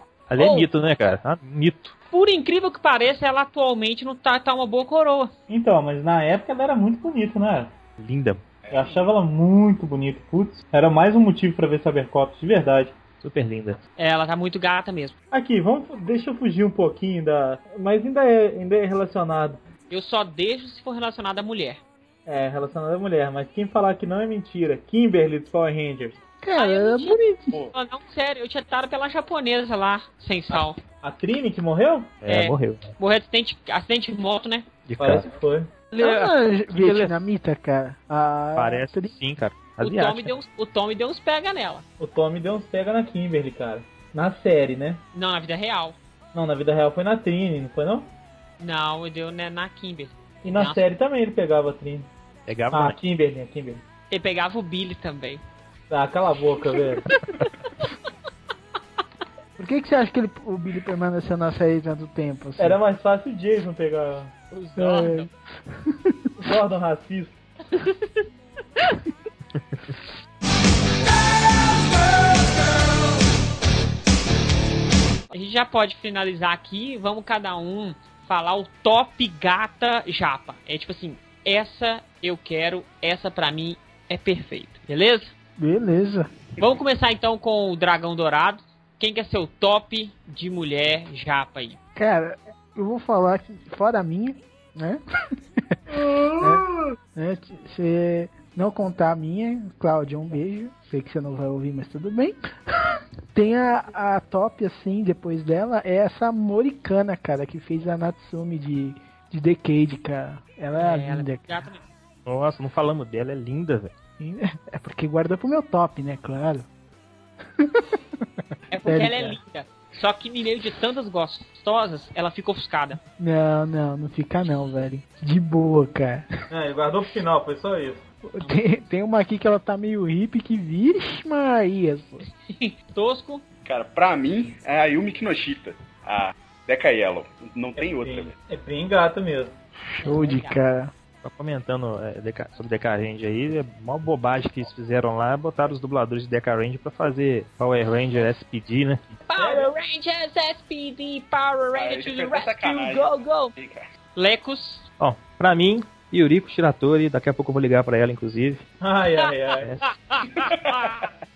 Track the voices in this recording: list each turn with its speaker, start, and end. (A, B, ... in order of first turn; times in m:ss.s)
0:00.3-0:01.9 A
0:00.4-0:00.7 B
0:02.1-0:05.3 B
0:05.5-0:07.7 C
0:08.0-0:08.4 A
0:08.6-0:09.0 D
0:08.7-0:13.0 C
0:13.2-0:13.8 A
0:14.0-0:15.1 B
0:15.3-0:19.6 C
0:19.9-0:21.8 B
0:22.3-0:26.2 C
0:26.4-0:27.6 E
0:26.6-0:27.2 B
0:27.7-0:30.8 B
0:31.0-0:32.1 C
0:32.2-0:32.9 A
0:32.3-0:34.7 B
0:34.9-0:35.3 A
0:35.0-0:35.7 C
0:35.9-0:39.1 E
0:36.0-0:37.2 A
0:38.6-0:40.3 A
0:39.8-0:41.8 B
0:42.0-0:45.0 C
0:45.1-0:46.0 B
0:46.3-0:48.1 C
0:48.6-0:50.8 B
0:50.4-0:52.1 C
0:52.5-0:53.0 A
0:52.7-0:53.8 C
0:54.1-0:55.4 B
0:55.9-0:57.1 C
0:59.6-1:02.8 E
1:02.6-1:04.3 C
1:04.5-1:05.3 B
1:04.8-1:05.3 E
1:06.4-1:07.4 C
1:07.7-1:08.2 B
1:15.3-1:25.3 B
1:25.6-1:26.3 E
1:26.6-1:31.8 B
1:32.0-1:35.0 E
1:35.9-1:36.9 C
1:36.4-1:51.6 E
1:50.7-1:51.8 B
1:52.3-1:53.9 A
1:54.2-1:56.7 E
1:57.6-1:58.2 E
1:58.7-2:03.0 B
1:58.8-1:59.4 E
2:03.2-2:06.3 E
2:06.5-2:08.0 C
2:08.3-2:12.2 E
2:08.4-2:08.6 B
2:12.5-2:13.4 B
2:13.6-2:18.4 D
2:17.8-2:19.6 C
2:19.9-2:20.9 E
2:20.0-2:20.6 B
2:21.2-2:29.2 A
2:29.3-2:33.6 B
2:29.4-2:29.7 C
2:31.7-2:33.9 D
2:34.2-2:34.9 B
2:35.0-2:38.6 A
2:38.8-2:39.7 C
2:39.6-2:39.9 A
2:39.8-2:41.1 B